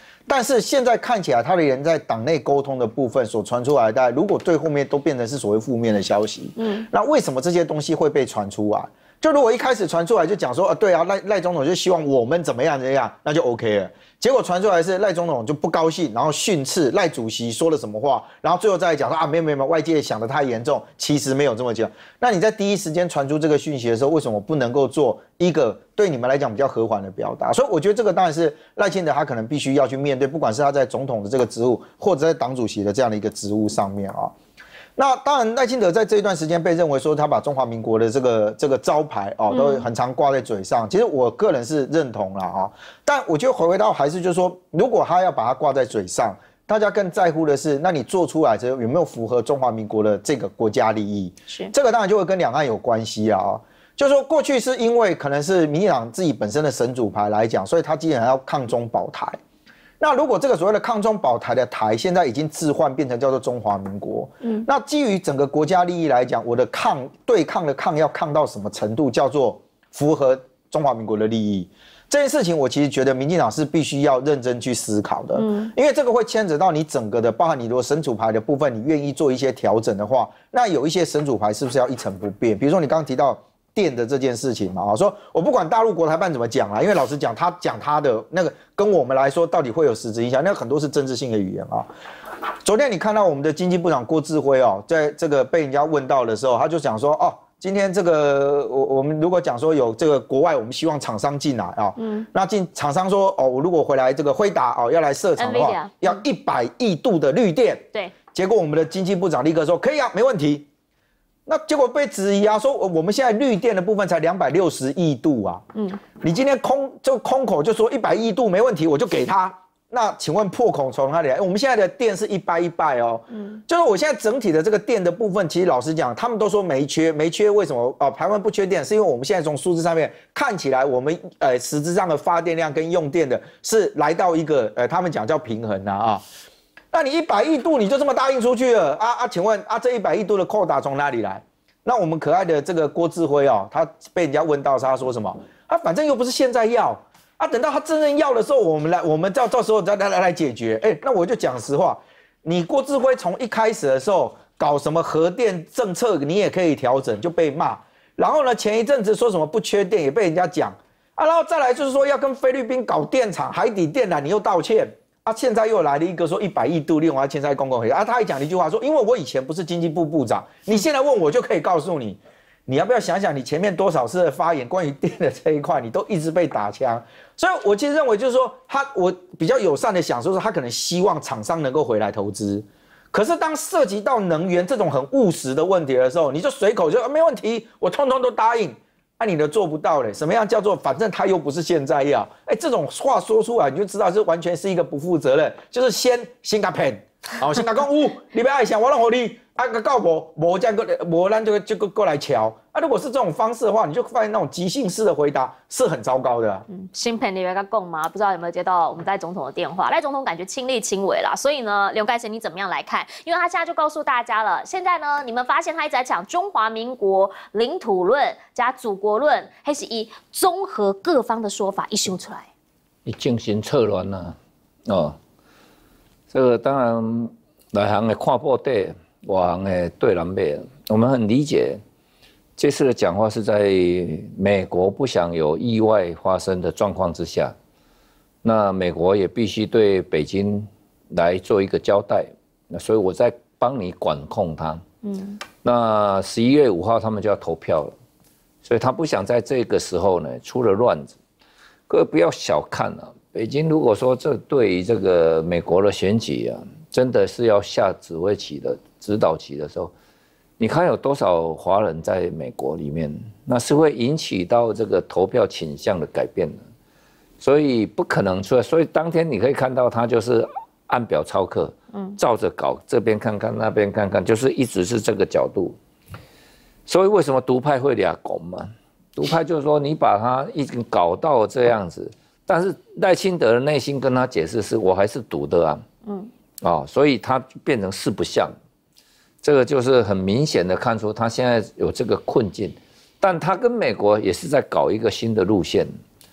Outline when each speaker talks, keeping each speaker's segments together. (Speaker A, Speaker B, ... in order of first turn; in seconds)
Speaker A: 0.3-34.3, 35.0-59.4, 60.0-91.9, 92.6-110.7, 111.5-115.6, 116.2-136.2, 136.9-206.7
Speaker B: 6.6-6.8, 39.5-39.9, 75.3-75.7, 102.0-102.2, 105.4-106.2, 115.7-116.0, 123.3-123.6, 206.7-222.5, 245.0-245.4
Speaker C: 223.0-225.2, 226.3-231.8, 232.6-237.5, 238.4-244.8, 245.6-247.9, 248.6-251.2, 251.9-259.9, 260.6-266.6, 267.4-275.8, 276.9-285.8, 286.6-288.5, 289.4-295.9